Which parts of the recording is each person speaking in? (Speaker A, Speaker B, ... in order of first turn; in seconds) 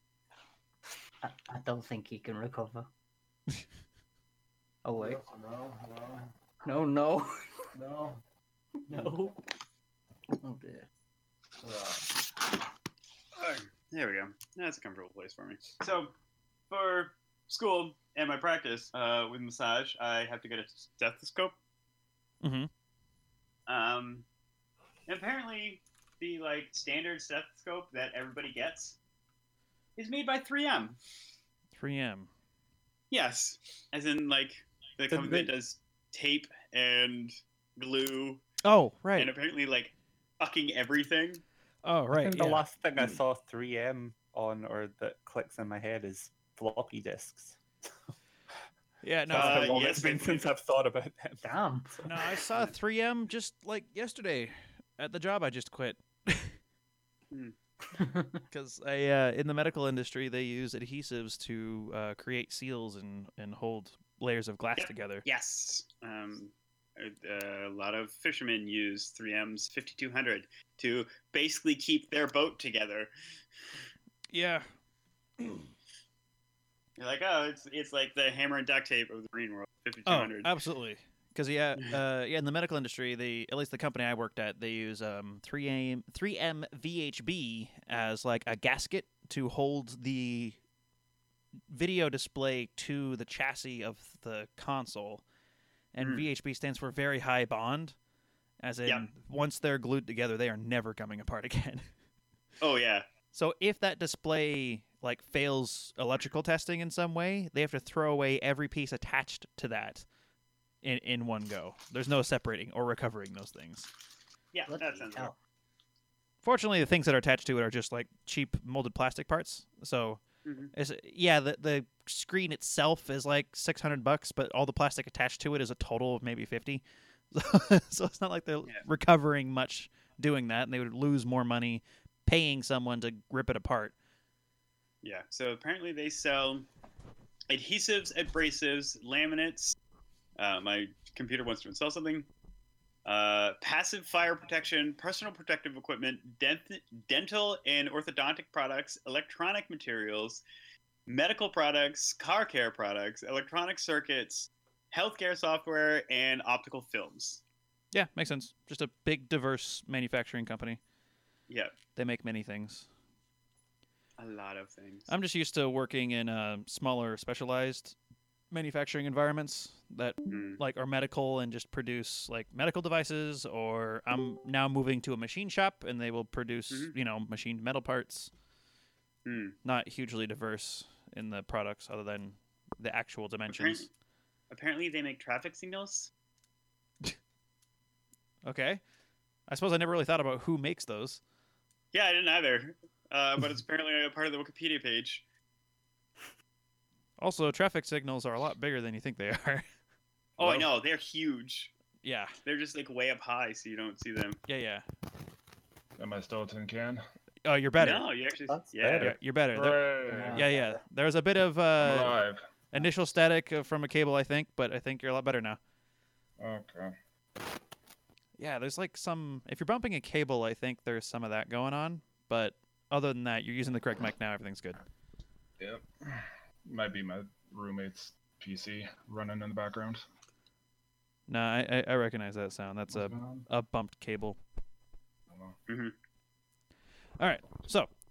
Speaker A: 1.2-2.9, 4.8-5.2, 6.6-7.7, 8.9-9.4, 10.3-10.9, 51.4-52.1, 57.9-58.4, 114.7-115.3, 210.1-210.5
Speaker B: 5.0-6.3, 7.8-8.2, 11.6-12.1, 206.0-207.0, 209.5-210.5, 211.8-212.4, 216.4-216.9, 225.6-230.0, 232.9-233.4
Speaker C: 13.4-16.1, 16.7-21.6, 23.7-24.2, 25.1-29.0, 30.0-31.0, 33.1-38.4, 39.2-41.4, 49.3-50.5, 64.8-73.1, 77.0-80.5, 96.0-96.3, 102.6-103.1, 114.5-115.3, 120.5-120.7, 135.0-136.7, 137.5-139.8, 140.4-142.3, 143.1-150.4, 151.1-157.4, 161.5-161.8, 164.2-165.1, 170.3-170.6, 179.3-179.6, 183.5-183.9, 184.5-186.1, 191.9-195.2, 200.4-201.7, 202.4-204.4, 207.8-209.1, 235.7-235.9
Speaker D: 22.4-22.7, 31.7-32.3, 38.6-39.3, 41.8-42.6, 49.0-49.9, 52.0-56.5, 58.5-65.2, 74.3-74.7, 80.1-90.6, 91.7-95.2, 95.9-98.0, 98.6-101.9, 103.3-110.1, 110.8-113.9, 116.4-120.2, 120.7-133.9, 157.9-160.8, 162.0-162.9, 165.1-168.0, 168.5-178.3, 179.7-183.9, 188.4-188.8, 189.5-191.2, 197.2-199.6, 202.0-202.3, 204.5-204.8, 207.4-208.1, 209.0-212.2, 212.7-215.6, 218.4-224.8, 231.3-234.4, 237.2-237.9
Speaker E: 35.1-35.5, 42.1-47.6, 49.3-51.5, 208.5-209.2